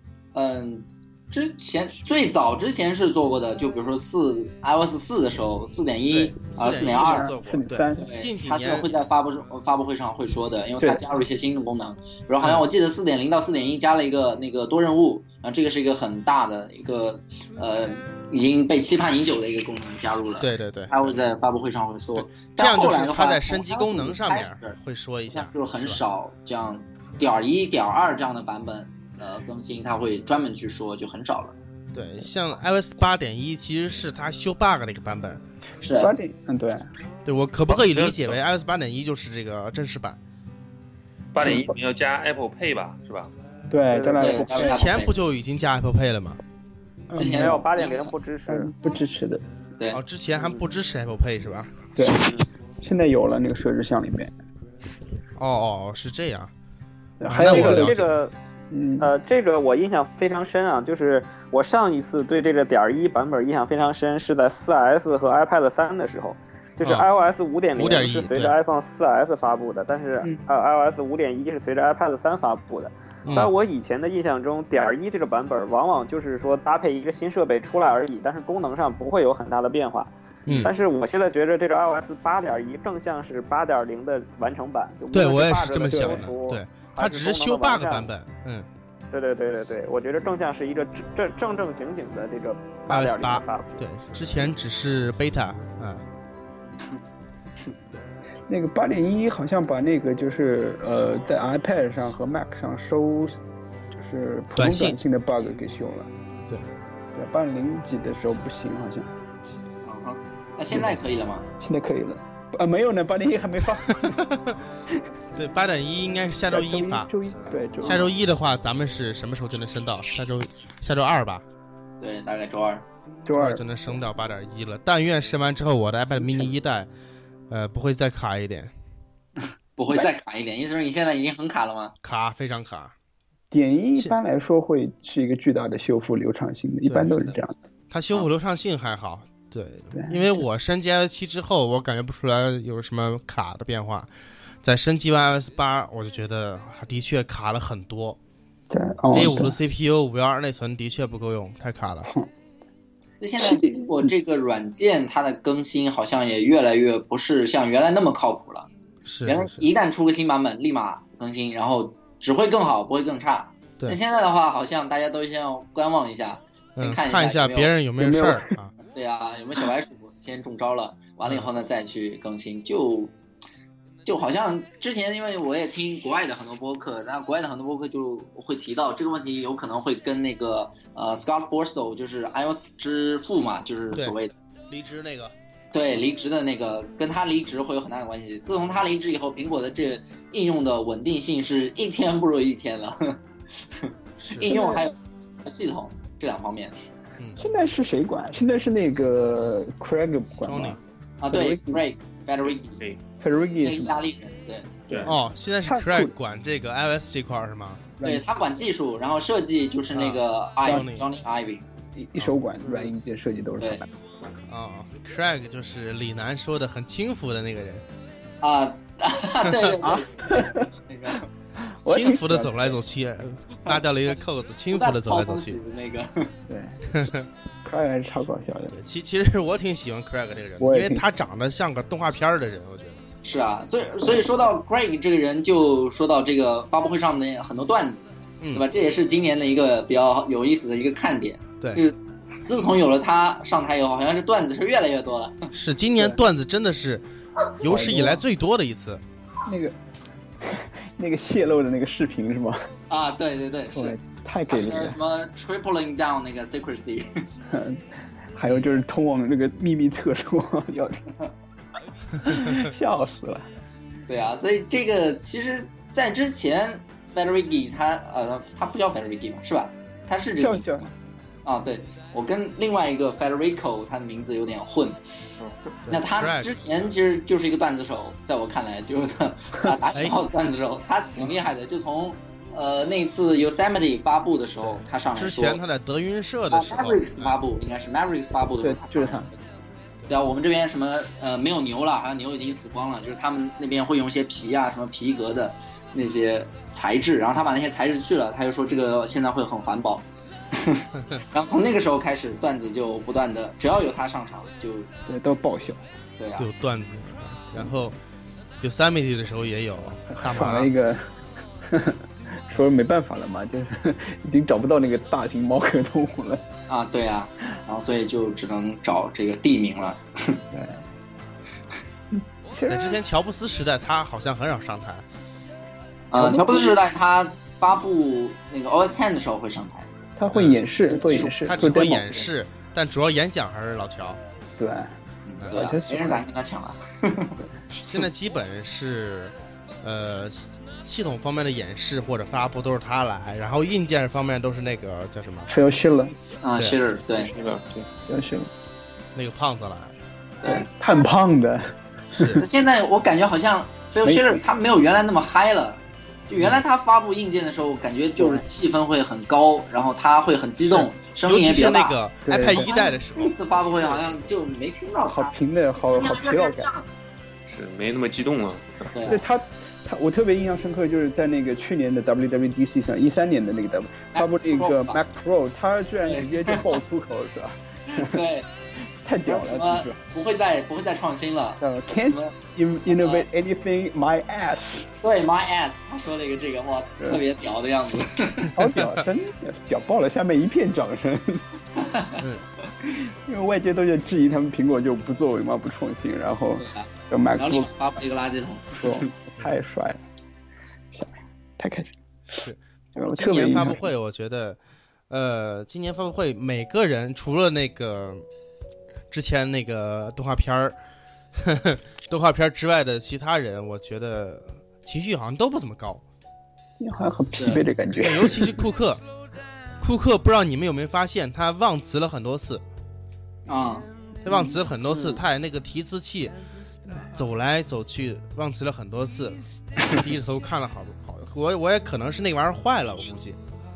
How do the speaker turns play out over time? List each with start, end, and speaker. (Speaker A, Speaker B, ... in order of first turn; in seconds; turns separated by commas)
Speaker A: 0.3-7.3, Speaker B: 6.1-8.9, Speaker C: 6.7-8.1, Speaker A: 7.9-24.8, Speaker B: 20.4-21.2, Speaker B: 22.1-26.0, Speaker A: 25.3-31.5, Speaker B: 31.9-35.4, Speaker A: 35.8-36.1, Speaker C: 35.9-36.9, Speaker B: 37.2-40.2, Speaker D: 37.7-38.4, Speaker D: 41.3-43.3, Speaker C: 41.4-41.7, Speaker C: 43.7-44.9, Speaker E: 43.9-44.6, Speaker A: 44.2-45.1, Speaker B: 44.5-46.4, Speaker C: 47.1-47.7, Speaker A: 47.2-48.1, Speaker E: 47.3-48.7, Speaker C: 48.5-49.4, Speaker B: 49.9-51.7, Speaker C: 52.0-54.3, Speaker E: 52.1-52.4, Speaker B: 55.4-56.5, Speaker C: 57.2-58.0, Speaker B: 57.3-58.1, Speaker E: 57.3-58.3, Speaker C: 58.7-59.1, Speaker E: 59.0-88.1, Speaker B: 66.8-67.1, Speaker B: 67.7-68.5, Speaker B: 73.2-73.5, Speaker B: 80.5-80.7, Speaker B: 85.1-88.7, Speaker C: 85.9-86.2, Speaker E: 89.1-93.8, Speaker B: 92.9-96.0, Speaker C: 98.5-103.4, Speaker C: 103.9-106.1, Speaker B: 104.5-105.0, Speaker C: 107.1-109.1, Speaker A: 109.8-111.5, Speaker C: 111.6-114.2, Speaker B: 113.9-114.6, Speaker B: 115.3-121.4, Speaker C: 116.5-118.1, Speaker A: 122.0-122.8, Speaker C: 123.2-124.0, Speaker B: 123.3-126.9, Speaker B: 127.5-128.7, Speaker A: 129.4-131.9, Speaker B: 132.0-132.9, Speaker C: 133.5-137.6, Speaker B: 136.9-137.2, Speaker B: 137.9-144.1, Speaker C: 139.9-140.3, Speaker B: 144.6-148.2, Speaker C: 148.7-149.6, Speaker B: 149.1-152.1, Speaker A: 153.2-158.7, Speaker C: 153.4-154.1, Speaker B: 159.0-159.7, Speaker A: 159.2-167.7, Speaker B: 166.8-168.7, Speaker C: 168.0-168.5, Speaker A: 168.9-173.1, Speaker A: 174.0-184.3, Speaker B: 184.7-185.3, Speaker A: 185.7-193.2, Speaker A: 193.7-196.8, Speaker B: 194.2-194.5, Speaker C: 194.4-194.9, Speaker C: 197.4-200.8, Speaker B: 200.4-200.8, Speaker A: 201.2-202.8, Speaker C: 201.3-201.8, Speaker C: 203.2-204.0, Speaker A: 203.6-204.8, Speaker C: 204.9-206.1, Speaker B: 205.0-207.9, Speaker C: 208.0-208.3, Speaker A: 208.0-211.6, Speaker B: 209.9-211.1, Speaker C: 211.9-213.9, Speaker B: 214.5-217.8, Speaker A: 218.4-221.3, Speaker B: 219.4-219.8, Speaker C: 219.8-220.7, Speaker C: 221.6-222.8, Speaker B: 221.9-225.6, Speaker A: 224.7-226.3, Speaker C: 226.5-226.8, Speaker B: 226.9-227.3, Speaker C: 227.6-228.7, Speaker B: 228.7-233.0, Speaker C: 230.6-231.0, Speaker A: 233.2-245.5, Speaker B: 238.4-238.7, Speaker B: 245.5-247.0, Speaker B: 247.6-249.0, Speaker C: 247.6-248.2, Speaker C: 249.4-249.8, Speaker C: 250.4-252.7, Speaker A: 252.9-253.9, Speaker C: 253.7-255.0, Speaker A: 254.5-257.1, Speaker C: 257.5-257.8, Speaker C: 258.3-261.1, Speaker C: 262.2-263.4, Speaker A: 264.1-270.7, Speaker C: 270.4-270.9, Speaker A: 271.4-275.0, Speaker B: 275.9-276.8, Speaker A: 275.9-285.6, Speaker B: 279.9-280.2, Speaker B: 284.6-287.4, Speaker A: 286.5-289.4, Speaker C: 288.6-289.3, Speaker A: 290.1-304.9, Speaker C: 305.1-305.8, Speaker A: 306.2-306.5, Speaker B: 306.4-308.0, Speaker B: 308.6-310.7, Speaker C: 310.1-311.1, Speaker C: 311.6-316.4, Speaker A: 316.7-320.4, Speaker C: 320.5-320.8, Speaker C: 322.5-323.0, Speaker B: 322.6-325.0, Speaker A: 326.1-329.9, Speaker C: 326.1-326.8, Speaker C: 330.2-332.2, Speaker B: 330.3-330.6, Speaker A: 330.9-332.1, Speaker B: 331.4-334.2, Speaker C: 334.6-334.9, Speaker A: 335.2-337.4, Speaker C: 335.5-336.2, Speaker C: 337.6-338.0, Speaker B: 337.8-345.5, Speaker C: 345.5-346.1, Speaker A: 346.4-347.3, Speaker D: 347.2-347.9, Speaker C: 348.1-348.5, Speaker B: 349.1-349.9, Speaker A: 350.4-350.7, Speaker C: 350.4-352.4, Speaker B: 352.1-352.4, Speaker A: 352.4-365.3, Speaker C: 354.0-354.4, Speaker C: 358.2-358.4, Speaker B: 360.7-364.3, Speaker C: 362.2-362.7, Speaker C: 365.1-366.7, Speaker A: 365.9-366.9, Speaker D: 367.5-368.9, Speaker A: 368.9-369.2, Speaker C: 369.0-378.2, Speaker A: 374.1-375.0, Speaker A: 376.0-376.8, Speaker A: 377.9-378.5, Speaker C: 379.0-380.0, Speaker A: 379.2-382.3, Speaker C: 381.6-384.9, Speaker A: 382.9-383.2, Speaker A: 385.0-388.6, Speaker C: 388.5-391.4, Speaker B: 388.7-389.1, Speaker A: 391.8-392.2, Speaker B: 392.2-392.5, Speaker C: 393.1-397.7, Speaker A: 396.6-399.1, Speaker C: 398.8-400.0, Speaker C: 400.9-401.9, Speaker B: 402.3-404.6, Speaker C: 402.9-403.8, Speaker B: 405.1-408.2, Speaker B: 409.1-410.8, Speaker B: 411.4-416.0, Speaker C: 416.8-418.6, Speaker A: 417.4-417.6, Speaker B: 417.9-419.0, Speaker B: 419.8-422.6, Speaker A: 423.4-423.9, Speaker B: 424.2-426.3, Speaker C: 424.3-424.6, Speaker B: 427.1-433.4